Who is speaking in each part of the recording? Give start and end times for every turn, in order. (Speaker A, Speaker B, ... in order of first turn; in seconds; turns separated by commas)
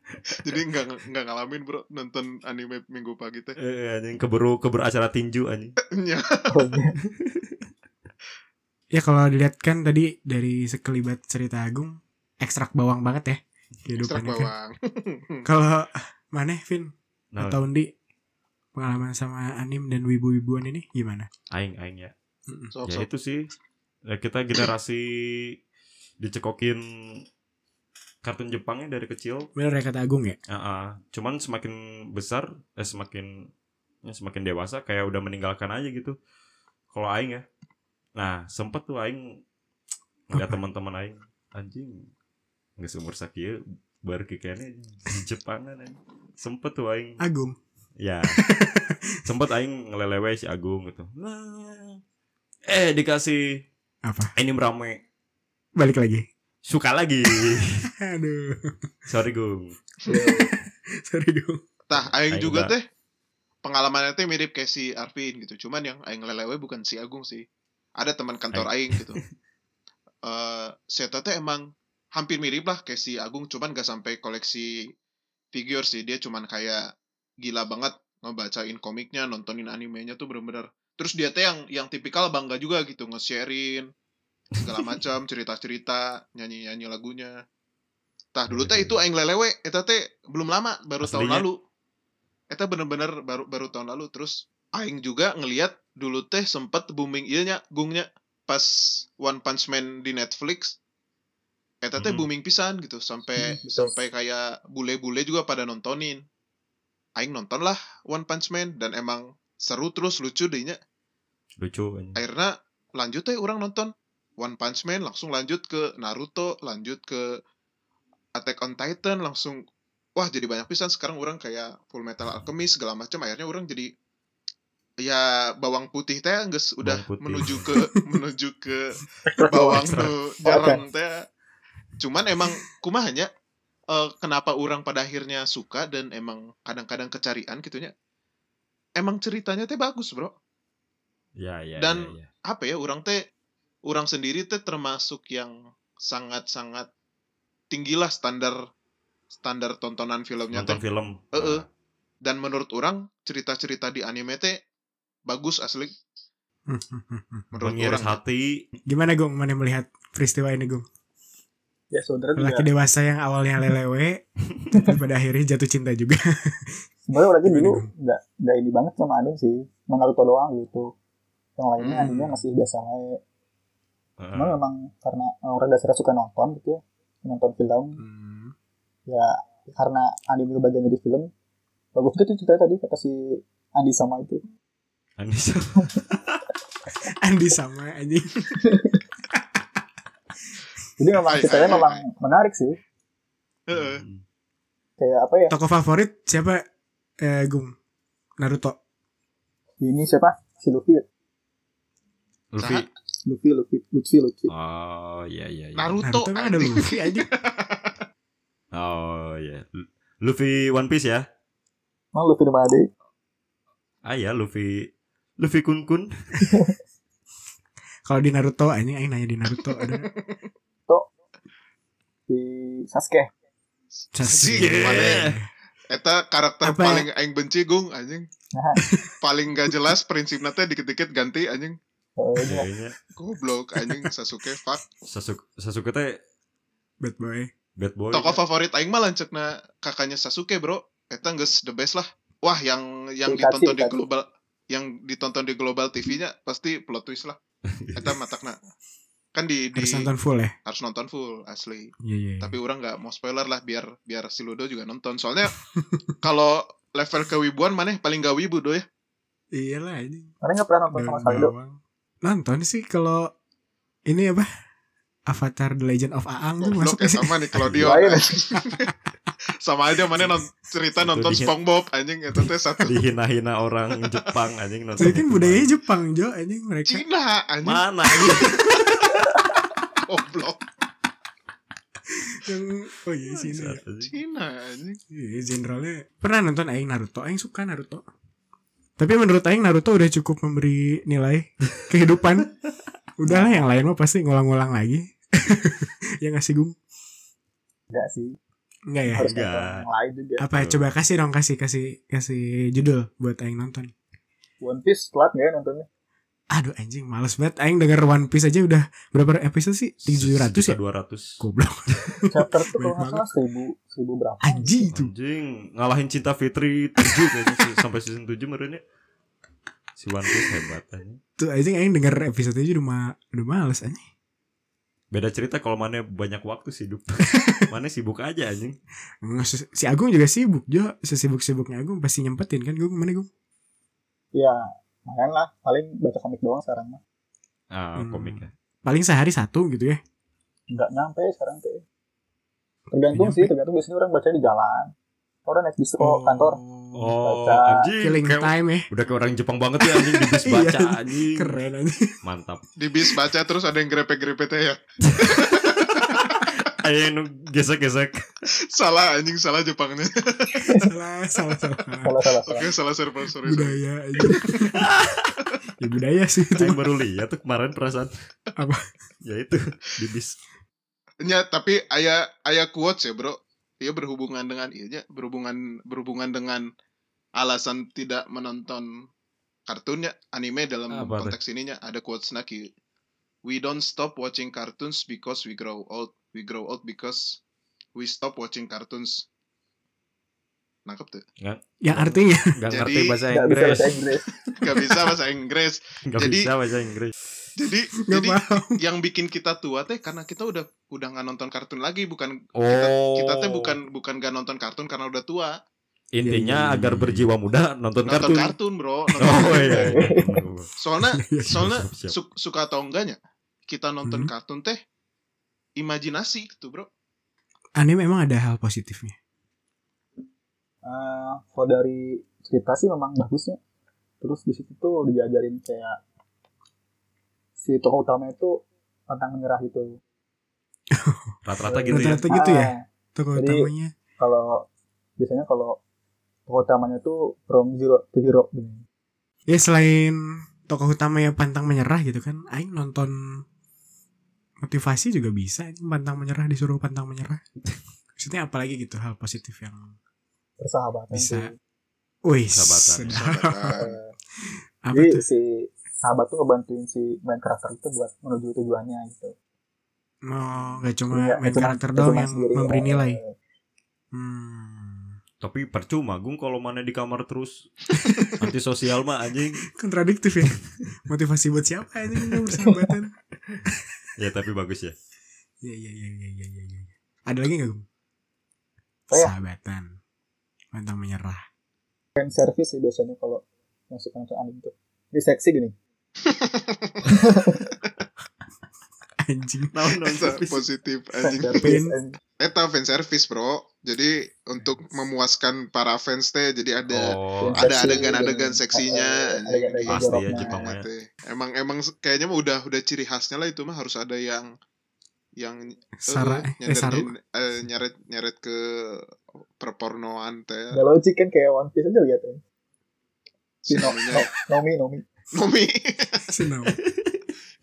Speaker A: 0.4-3.5, Speaker B: 3.6-5.7, Speaker A: 6.0-6.7, Speaker C: 6.5-7.0, Speaker B: 7.2-7.6, Speaker D: 8.9-14.5, Speaker A: 14.0-15.4, Speaker D: 15.4-17.9, Speaker B: 17.3-17.6, Speaker D: 18.7-21.3, Speaker B: 21.5-22.1, Speaker A: 22.7-23.1, Speaker B: 22.9-23.5, Speaker B: 24.1-25.6, Speaker B: 26.2-27.2, Speaker B: 28.2-29.5, Speaker D: 29.6-30.4, Speaker B: 30.5-33.5, Speaker B: 34.0-36.1, Speaker B: 36.9-37.4, Speaker B: 38.2-39.4, Speaker B: 40.3-42.0, Speaker D: 40.3-40.6, Speaker B: 42.8-47.2, Speaker D: 47.2-47.6, Speaker B: 48.0-48.4, Speaker D: 48.3-49.0, Speaker B: 49.2-52.0, Speaker B: 52.6-53.6, Speaker D: 54.0-54.3, Speaker B: 54.4-55.0, Speaker D: 55.8-56.2, Speaker B: 56.6-57.7, Speaker D: 58.0-58.7, Speaker B: 59.1-59.7, Speaker C: 60.0-60.5, Speaker D: 60.1-61.6, Speaker A: 61.9-62.8, Speaker B: 62.3-62.7, Speaker A: 63.6-67.4, Speaker A: 68.0-69.2, Speaker B: 68.5-69.2, Speaker A: 70.2-74.8, Speaker A: 75.5-76.8, Speaker A: 77.4-83.9, Speaker A: 84.6-87.3, Speaker A: 88.3-91.5, Speaker B: 88.5-89.0, Speaker B: 91.0-91.5, Speaker A: 92.5-100.8, Speaker A: 101.8-106.2, Speaker B: 102.0-102.2, Speaker C: 103.4-103.9, Speaker A: 107.2-110.8, Speaker B: 111.6-112.2, Speaker A: 112.2-117.3, Speaker A: 118.3-119.6, Speaker A: 120.2-123.9, Speaker A: 125.0-129.0, Speaker B: 126.8-127.7, Speaker C: 129.2-129.9, Speaker A: 129.5-131.2, Speaker D: 129.7-130.1, Speaker C: 130.4-130.8, Speaker A: 132.0-133.3, Speaker A: 133.9-137.9, Speaker A: 139.0-140.3, Speaker B: 141.4-142.3, Speaker A: 141.8-143.2, Speaker A: 143.9-145.5, Speaker A: 146.0-146.9, Speaker A: 147.7-148.6, Speaker A: 149.3-150.8, Speaker B: 150.5-151.7, Speaker A: 151.3-151.6, Speaker A: 152.2-154.6, Speaker A: 155.3-155.9, Speaker D: 156.7-157.4, Speaker A: 157.5-158.2, Speaker B: 157.6-158.6, Speaker D: 158.9-160.8, Speaker C: 161.9-162.7, Speaker D: 162.3-166.7, Speaker C: 167.1-170.9, Speaker D: 167.4-167.9, Speaker C: 171.6-173.2, Speaker A: 171.8-172.1, Speaker D: 172.0-172.4, Speaker B: 174.2-174.6, Speaker C: 174.3-178.0, Speaker D: 178.0-178.5, Speaker C: 179.1-181.3, Speaker C: 181.9-184.4, Speaker B: 185.2-186.4, Speaker D: 187.2-188.5, Speaker C: 188.6-188.9, Speaker C: 191.0-192.8, Speaker A: 191.3-192.0, Speaker A: 193.7-194.0, Speaker B: 193.7-194.2, Speaker C: 195.0-195.5, Speaker D: 195.5-196.6, Speaker D: 197.2-197.7, Speaker D: 198.4-198.8, Speaker C: 199.8-201.0, Speaker B: 202.5-202.8, Speaker A: 202.6-202.9, Speaker C: 203.2-204.5, Speaker B: 204.5-206.0, Speaker A: 205.8-208.0, Speaker D: 206.0-207.3, Speaker B: 208.7-209.7, Speaker B: 210.2-211.2, Speaker C: 212.1-212.9, Speaker B: 214.0-214.9, Speaker B: 215.4-216.1, Speaker C: 216.4-216.7, Speaker D: 218.1-220.1, Speaker A: 219.8-220.4, Speaker C: 222.3-223.3, Speaker A: 224.0-225.3, Speaker D: 224.1-225.5, Speaker B: 224.5-225.2, Speaker A: 225.9-228.2, Speaker D: 226.6-227.1, Speaker C: 228.5-228.8, Speaker D: 228.8-229.1, Speaker A: 229.2-231.8, Speaker C: 232.2-232.7, Speaker B: 232.4-232.9, Speaker A: 233.2-234.8, Speaker B: 235.1-236.2, Speaker D: 237.0-237.5, Speaker B: 237.8-238.4, Speaker A: 238.1-247.3, Speaker C: 243.2-244.0, Speaker B: 247.7-248.1, Speaker A: 247.9-248.6, Speaker A: 249.3-250.1, Speaker D: 249.8-250.5, Speaker A: 250.7-255.5, Speaker D: 252.0-252.6, Speaker A: 256.2-258.8, Speaker D: 259.5-260.3, Speaker C: 260.4-261.5, Speaker D: 260.9-263.3, Speaker D: 264.1-264.5, Speaker D: 265.3-267.7, Speaker A: 266.6-268.9, Speaker B: 267.5-268.0, Speaker C: 267.8-268.3, Speaker A: 269.6-273.0, Speaker B: 271.0-271.5, Speaker B: 272.8-275.7, Speaker D: 275.0-277.0, Speaker A: 276.9-278.4, Speaker B: 277.6-279.3, Speaker A: 280.0-280.6, Speaker D: 282.1-283.8, Speaker B: 283.4-284.1, Speaker A: 284.0-285.0, Speaker D: 285.1-288.0, Speaker D: 289.0-292.5, Speaker D: 293.2-296.8, Speaker C: 293.2-293.6, Speaker C: 297.9-298.4, Speaker D: 298.9-299.2, Speaker C: 299.1-300.5, Speaker B: 299.2-299.9, Speaker D: 300.4-303.9, Speaker B: 300.5-300.8, Speaker C: 304.6-305.9, Speaker D: 306.5-310.8, Speaker B: 310.1-311.4, Speaker D: 311.4-313.3, Speaker C: 312.3-314.8, Speaker D: 314.4-315.1, Speaker B: 314.9-318.8, Speaker D: 317.0-317.4, Speaker B: 320.0-321.2, Speaker D: 321.4-324.0, Speaker B: 325.1-328.8, Speaker D: 329.2-333.3, Speaker C: 334.3-337.0, Speaker B: 337.7-338.5, Speaker D: 338.0-340.0, Speaker C: 340.7-341.8, Speaker C: 342.9-344.9, Speaker D: 343.1-343.5, Speaker C: 345.4-346.6, Speaker D: 346.0-347.1, Speaker B: 346.9-351.5, Speaker C: 347.2-347.9, Speaker D: 348.0-348.9, Speaker D: 349.8-352.1, Speaker B: 352.2-352.6, Speaker A: 352.8-356.4, Speaker B: 355.1-355.3, Speaker B: 356.1-358.2, Speaker A: 358.7-360.8, Speaker D: 360.8-362.3, Speaker C: 362.0-362.7, Speaker A: 362.5-363.8, Speaker D: 363.4-364.9, Speaker B: 364.7-365.4, Speaker D: 365.8-366.8, Speaker B: 366.6-368.1, Speaker D: 368.6-368.9, Speaker B: 369.2-370.4, Speaker A: 371.2-376.6, Speaker A: 377.4-378.9, Speaker A: 379.7-382.7, Speaker B: 380.9-381.4, Speaker A: 383.4-387.4, Speaker A: 387.9-389.2, Speaker A: 390.9-391.2, Speaker B: 391.4-393.9, Speaker D: 391.8-392.5, Speaker A: 392.7-393.2, Speaker C: 393.3-394.2, Speaker D: 394.5-395.0, Speaker A: 394.6-396.5, Speaker B: 396.1-397.1, Speaker A: 397.6-405.5, Speaker D: 398.1-398.8, Speaker B: 402.6-403.8, Speaker B: 406.1-408.5, Speaker D: 406.2-407.2, Speaker A: 408.1-410.1, Speaker B: 409.2-410.7, Speaker C: 409.3-410.4, Speaker A: 410.8-414.8, Speaker D: 411.1-411.7, Speaker B: 411.5-412.1, Speaker D: 414.0-414.3, Speaker A: 415.8-416.9, Speaker D: 417.8-419.1, Speaker C: 420.8-423.6, Speaker C: 424.2-426.0, Speaker C: 427.6-430.0, Speaker D: 430.9-431.4, Speaker B: 431.4-432.2, Speaker C: 431.6-432.8, Speaker D: 431.9-433.9, Speaker C: 433.3-434.6, Speaker C: 435.2-435.8, Speaker C: 436.5-438.8, Speaker D: 439.5-443.4, Speaker D: 444.6-447.4, Speaker D: 448.1-449.9, Speaker C: 450.6-451.5, Speaker D: 451.1-451.5, Speaker D: 452.2-453.8, Speaker B: 452.5-453.2, Speaker A: 453.1-454.0, Speaker C: 453.8-454.1, Speaker D: 454.8-455.2, Speaker C: 454.9-459.3, Speaker D: 460.2-463.2, Speaker C: 461.1-463.3, Speaker D: 464.1-465.2, Speaker B: 465.4-467.8, Speaker B: 468.3-469.6, Speaker D: 469.6-473.1, Speaker B: 474.2-474.9, Speaker D: 475.6-477.9, Speaker D: 479.1-479.9, Speaker D: 480.7-481.4, Speaker C: 482.1-485.8, Speaker A: 486.2-487.1, Speaker C: 487.0-487.6, Speaker D: 489.2-490.2, Speaker B: 489.7-490.6, Speaker A: 490.1-491.7, Speaker C: 491.2-492.2, Speaker D: 491.6-492.0, Speaker A: 492.4-504.5, Speaker B: 496.9-498.0, Speaker C: 497.4-500.7, Speaker B: 499.9-500.9, Speaker A: 505.4-509.0, Speaker D: 506.0-507.1, Speaker A: 509.6-510.8, Speaker C: 510.7-512.4, Speaker A: 513.6-514.3, Speaker C: 513.7-515.0, Speaker A: 515.3-516.4, Speaker D: 516.3-516.8